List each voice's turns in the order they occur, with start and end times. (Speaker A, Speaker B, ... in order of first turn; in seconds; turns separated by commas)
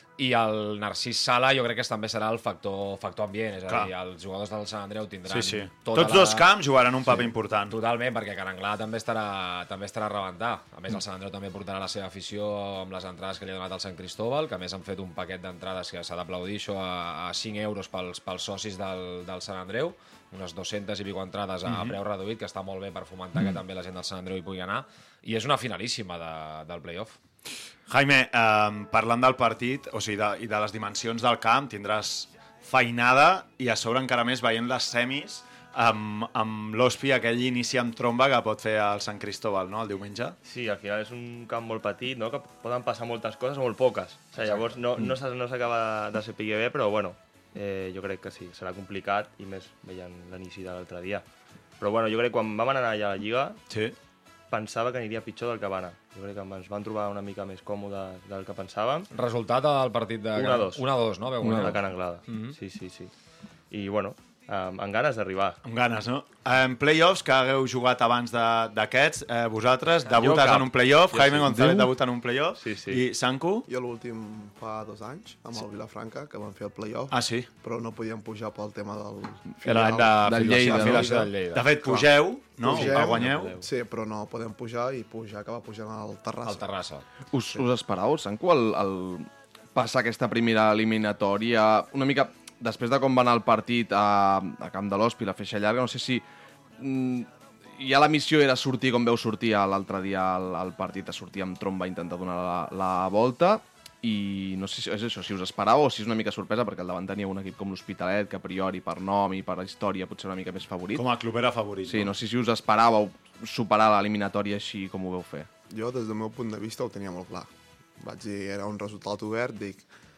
Speaker A: 0.2-6.5, Speaker B: 5.3-7.8, Speaker A: 7.0-27.2, Speaker B: 21.7-21.9, Speaker B: 27.9-40.4, Speaker C: 40.5-51.2, Speaker B: 44.4-45.1, Speaker C: 51.8-53.6, Speaker B: 53.7-54.0, Speaker C: 54.5-59.1, Speaker A: 59.1-61.8, Speaker C: 60.4-60.8, Speaker D: 61.4-61.7, Speaker C: 61.5-63.1, Speaker B: 62.3-62.6, Speaker C: 63.7-65.6, Speaker B: 65.6-73.7, Speaker C: 70.1-71.9, Speaker D: 71.5-71.8, Speaker C: 72.6-73.1, Speaker E: 73.7-81.1, Speaker B: 77.1-77.5, Speaker B: 79.7-83.5, Speaker D: 80.2-81.2, Speaker A: 80.5-82.0, Speaker C: 82.6-83.6, Speaker E: 82.6-86.6, Speaker A: 86.5-87.0, Speaker D: 87.3-96.2, Speaker D: 96.8-111.0, Speaker B: 111.0-112.1, Speaker D: 111.9-115.5, Speaker E: 115.7-119.8